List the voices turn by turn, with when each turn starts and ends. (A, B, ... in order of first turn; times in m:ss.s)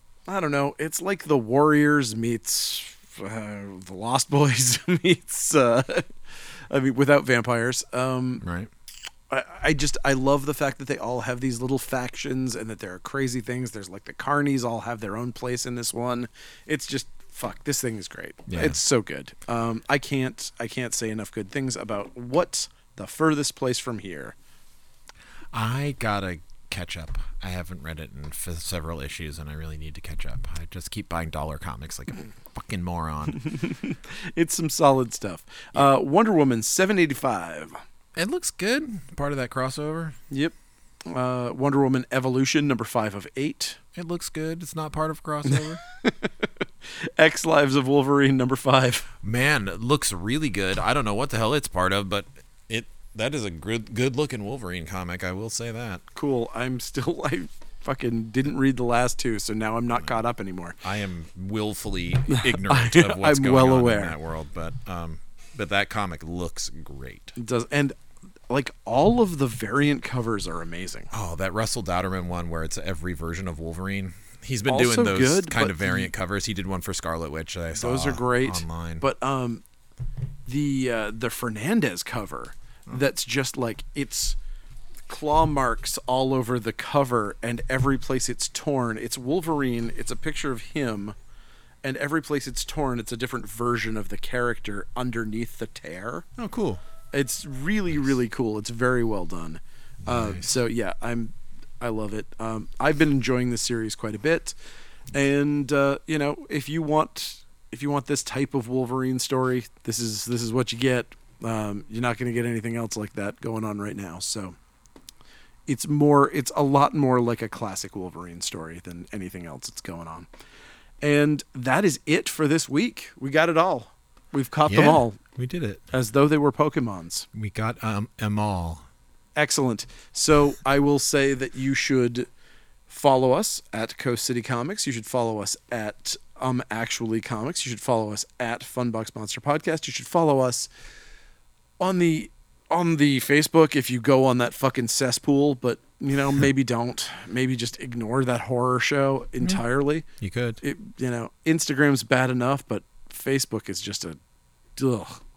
0:00.2-0:06.2 A
0:06.7-0:08.4 A
0:08.4-0:08.7 B
0:09.3-0:24.3 A
0:18.5-0:18.8 B
0:25.5-0:33.4 B
0:33.3-0:37.8 A
0:38.1-0:40.2 B
0:40.3-0:40.5 A
0:41.0-0:43.8 A
0:43.9-0:45.8 B
0:45.5-0:49.1 A
0:49.2-0:56.0 B
0:56.1-1:00.8 A
1:00.8-1:07.3 B
1:02.3-1:04.1 A
1:07.4-1:07.9 A
1:08.5-1:11.1 A
1:11.1-1:19.0 B
1:14.7-1:16.1 A
1:17.8-1:19.6 A
1:20.4-1:24.4 A
1:25.1-1:31.1 A
1:31.8-1:36.3 A
1:36.4-1:36.8 B
1:37.1-1:44.5 A
1:40.0-1:40.5 B
1:45.1-1:54.5 A
1:55.7-2:00.3 A
2:01.0-2:05.2 A
2:04.7-2:05.8 B
2:05.9-2:07.3 A
2:07.3-2:08.8 B
2:09.4-2:12.3 A
2:12.9-2:20.7 A
2:21.8-2:30.1 A
2:30.2-2:30.6 B
2:30.6-2:34.2 A
2:34.8-2:35.2 A